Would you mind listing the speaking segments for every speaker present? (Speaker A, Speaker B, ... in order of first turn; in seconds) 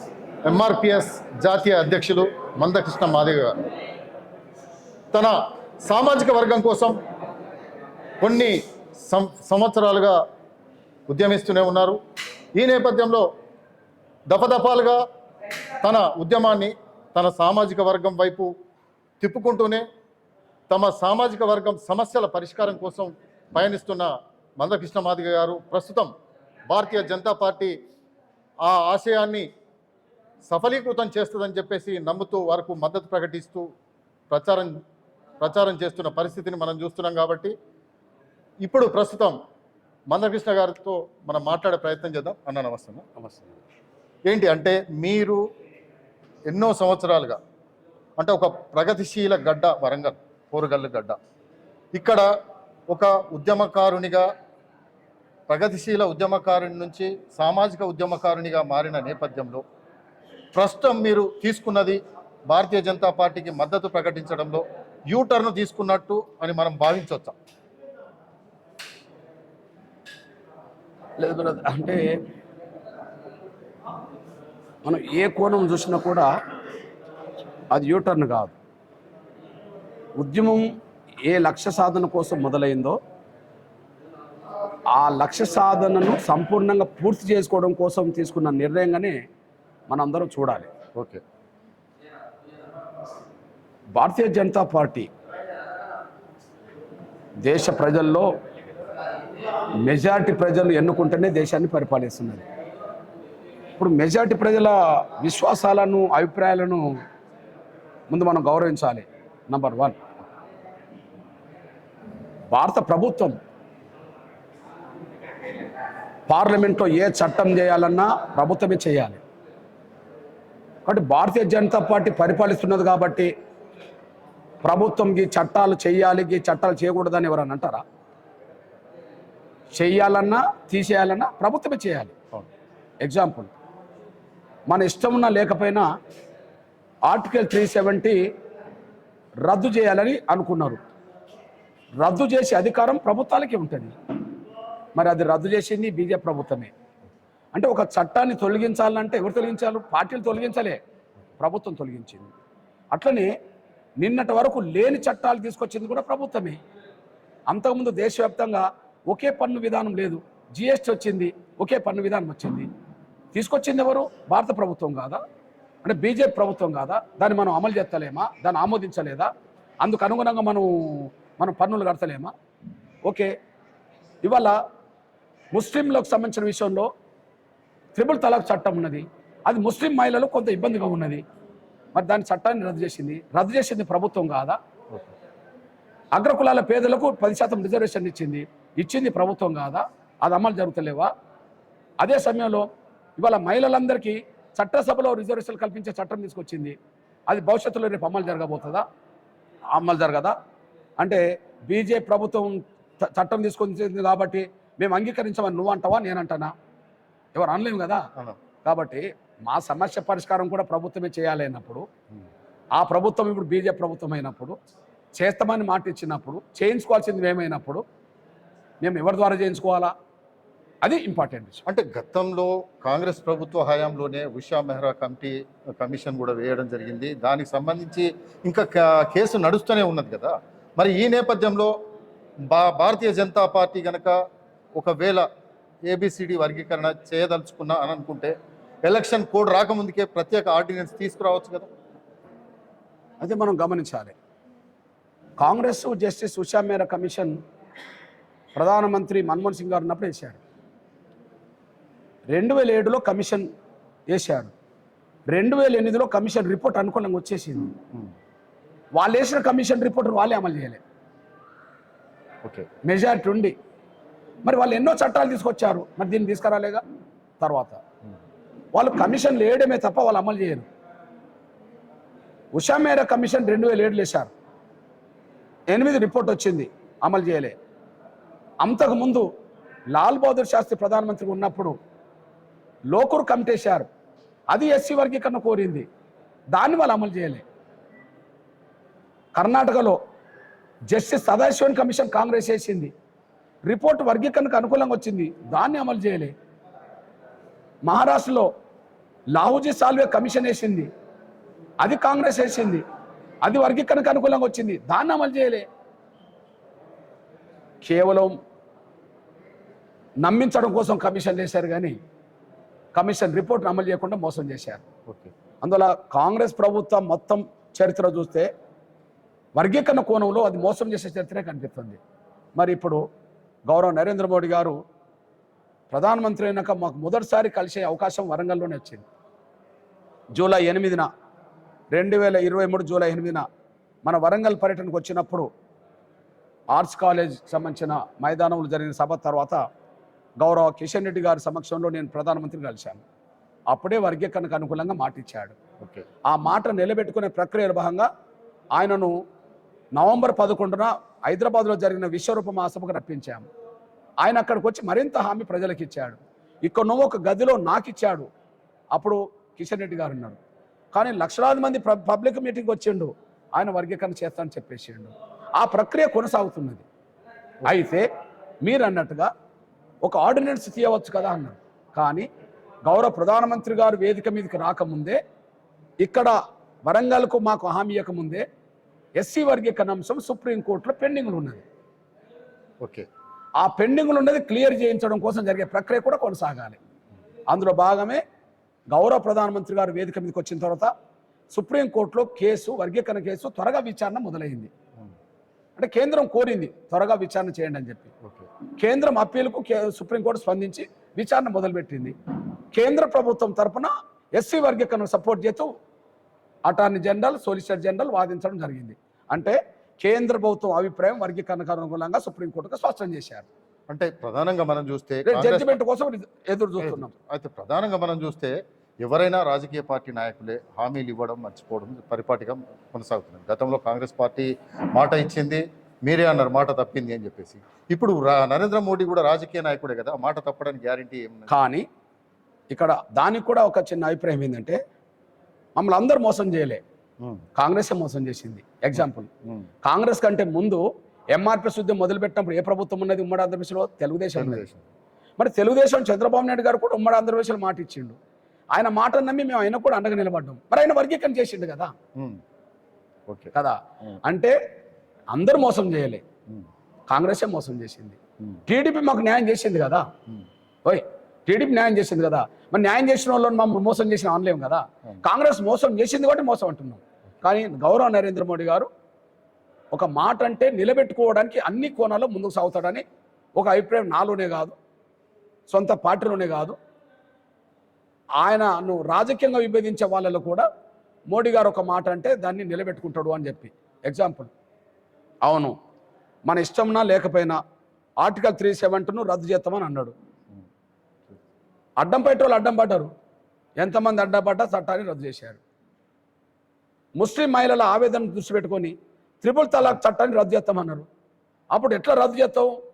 Speaker A: 0.5-3.6, 5.1-7.0, 8.2-10.2, 11.1-12.0, 12.6-13.3, 14.3-15.0, 15.8-18.5, 19.2-19.8, 20.7-26.1, 26.7-27.7, 28.6-29.5, 30.4-33.7, 34.3-34.8, 35.4-37.5, 38.6-39.4, 40.1-43.3, 44.2-45.4, 46.5-47.4, 48.2-51.2, 51.9-52.2, 52.9-54.3, 55.5-59.6, 60.5-67.4, 90.9-91.2, 221.6-231.7, 232.5-234.2, 234.7-235.2, 235.8-241.7, 262.4-262.7, 315.1-315.3, 345.8-346.0, 382.8-383.1, 398.2-398.5, 413.9-415.8, 416.8-431.6, 437.2-437.4, 438.9-439.7, 444.3-444.9, 452.1-452.4, 453.3-454.2
Speaker B: 71.2-72.1, 74.8-76.3, 77.7-78.5, 80.2-80.7, 81.2-83.0, 84.9-89.2, 89.9-90.7, 93.9-95.1, 97.4-98.3, 99.8-102.4, 103.8-107.0, 108.1-110.0, 112.5-113.3, 116.3-119.2, 120.8-123.3, 124.6-127.8, 129.7-132.1, 133.0-133.5, 134.7-135.8, 137.0-138.2, 139.4-140.8, 142.0-143.9, 144.9-146.7, 147.5-150.8, 151.4-152.3, 152.9-153.3, 154.0-156.6, 157.5-162.7, 163.3-165.2, 165.8-169.3, 169.8-172.3, 173.1-173.3, 174.2-174.6, 175.5-176.9, 177.9-181.2, 181.9-184.6, 186.1-191.1, 192.0-192.7, 193.2-196.8, 197.3-198.8, 199.7-200.3, 201.0-206.5, 207.3-208.1, 208.6-211.8, 212.7-214.6, 215.2-217.8, 218.8-219.9, 220.8-221.6, 243.2-244.1, 245.4-247.4, 248.6-250.4, 252.3-253.5, 254.1-254.5, 255.3-257.7, 258.9-260.8, 262.8-263.5, 264.4-266.8, 267.4-267.8, 268.7-270.6, 272.5-274.3, 275.7-277.6, 278.6-279.3, 279.9-281.8, 282.9-283.9, 284.5-285.9, 286.5-287.4, 289.4-290.0, 290.9-292.9, 293.6-296.3, 297.8-298.5, 299.3-300.9, 301.8-302.8, 303.4-305.6, 307.8-308.4, 310.2-312.0, 312.9-314.8, 315.6-318.5, 319.6-322.0, 322.6-323.0, 323.7-324.8, 325.9-329.0, 330.3-331.1, 331.9-333.4, 334.0-335.5, 336.7-339.6, 340.4-343.0, 343.7-345.5, 346.2-348.1, 348.7-349.1, 349.9-353.4, 354.2-358.3, 358.9-360.4, 360.9-366.8, 367.6-368.1, 368.6-369.3, 370.0-372.3, 372.8-375.2, 376.0-378.4, 379.2-381.6, 383.6-386.8, 387.5-388.2, 388.9-390.9, 391.5-394.7, 395.8-398.1, 398.8-402.1, 402.7-405.7, 406.6-413.5, 415.2-417.1, 431.5-431.9, 432.7-434.8, 435.8-436.8, 437.6-439.3, 439.8-444.6, 445.4-448.2, 448.7-451.9, 453.5-454.6, 455.3-456.2, 457.1-460.1, 460.9-468.9, 469.9-473.0, 473.6-474.7, 475.7-476.8, 478.4-480.7, 481.3-484.5, 485.4-485.7, 486.4-487.6, 488.2-490.1, 492.0-493.1, 493.8-495.6, 497.2-501.1, 501.7-502.7